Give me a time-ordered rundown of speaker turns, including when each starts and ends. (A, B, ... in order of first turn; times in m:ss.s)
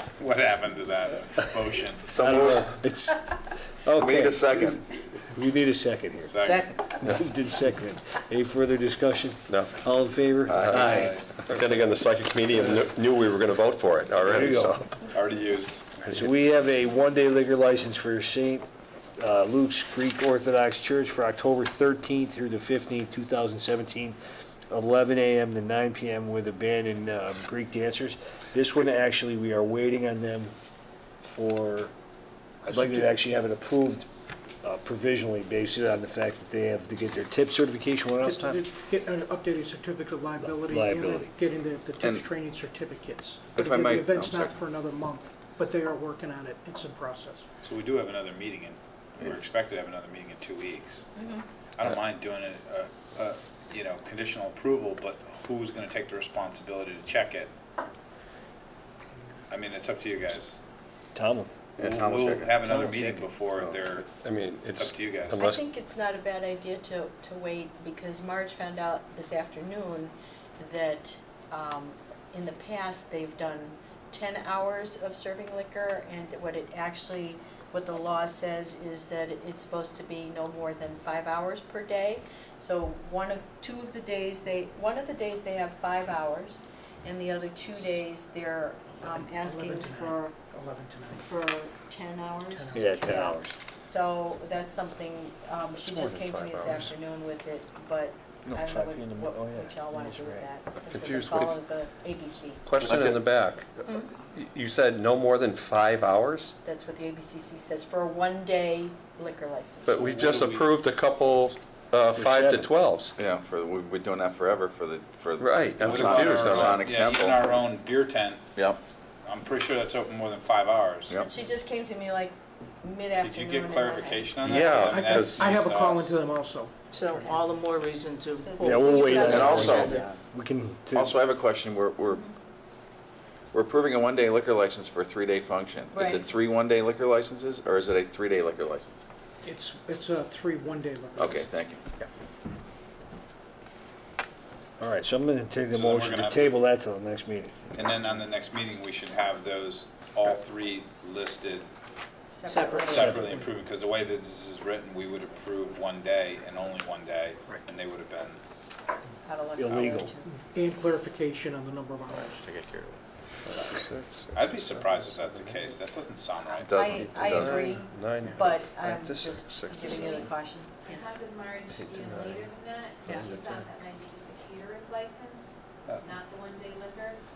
0:00.2-0:02.2 A
0:02.1-0:02.7 B
0:02.1-0:11.2 C
0:04.0-0:04.8 B
0:06.3-0:06.9 A
0:06.4-0:06.8 D
0:09.5-0:09.8 E
0:10.5-0:15.0 E
0:10.6-0:11.4 A
0:14.2-0:14.8 C
0:15.1-0:16.2 A
0:16.1-0:18.7 C
0:19.2-0:24.2 C
0:24.7-0:30.5 C
0:31.2-0:31.9 C
0:32.7-0:34.1 C
0:34.6-0:38.6 C
0:38.2-0:47.4 F
0:40.4-0:41.3 C
0:43.6-0:44.6 B
0:47.6-0:51.1 A
0:51.2-0:51.4 G
0:51.8-0:57.5 A
0:59.5-1:00.6 A
1:01.2-1:01.5 C
1:01.8-1:02.6 B
1:01.8-1:04.2 A
1:02.6-1:03.3 C
1:04.2-1:05.6 E
1:04.7-1:05.4 A
1:05.4-1:30.4 G
1:29.0-1:31.3 F
1:31.1-1:42.6 G
1:32.5-1:32.8 F
1:32.7-1:33.6 C
1:35.8-1:36.9 E
1:38.5-1:40.5 C
1:40.9-1:41.5 E
1:42.6-1:46.5 E
1:42.9-1:43.2 B
1:46.6-1:50.1 G
1:49.9-1:53.2 E
1:50.0-1:50.8 A
1:52.1-1:52.7 C
1:53.2-1:57.6 B
1:55.4-1:56.8 E
1:55.8-1:58.5 A
1:59.2-2:01.2 A
2:01.2-2:04.3 G
2:03.2-2:06.2 A
2:04.4-2:05.5 E
2:05.0-2:07.4 F
2:06.9-2:10.1 D
2:08.4-2:10.0 G
2:08.6-2:11.2 C
2:09.2-2:10.2 B
2:10.9-2:12.3 B
2:13.5-2:19.1 B
2:15.9-2:16.3 G
2:19.4-2:22.1 F
2:21.2-2:21.8 B
2:24.8-2:27.7 C
2:25.7-2:26.6 A
2:27.8-2:31.7 A
2:32.3-2:33.3 G
2:32.5-2:33.2 D
2:32.8-2:38.4 A
2:33.0-2:33.2 C
2:39.2-2:40.3 G
2:39.6-2:40.1 C
2:40.3-2:42.4 F
2:42.1-2:43.0 B
2:43.4-2:45.5 E
2:44.3-2:46.8 A
2:46.6-2:47.8 B
2:46.7-2:51.1 G
2:46.9-2:50.3 E
2:49.8-2:57.2 H
2:51.7-2:52.5 E
2:53.1-2:53.7 E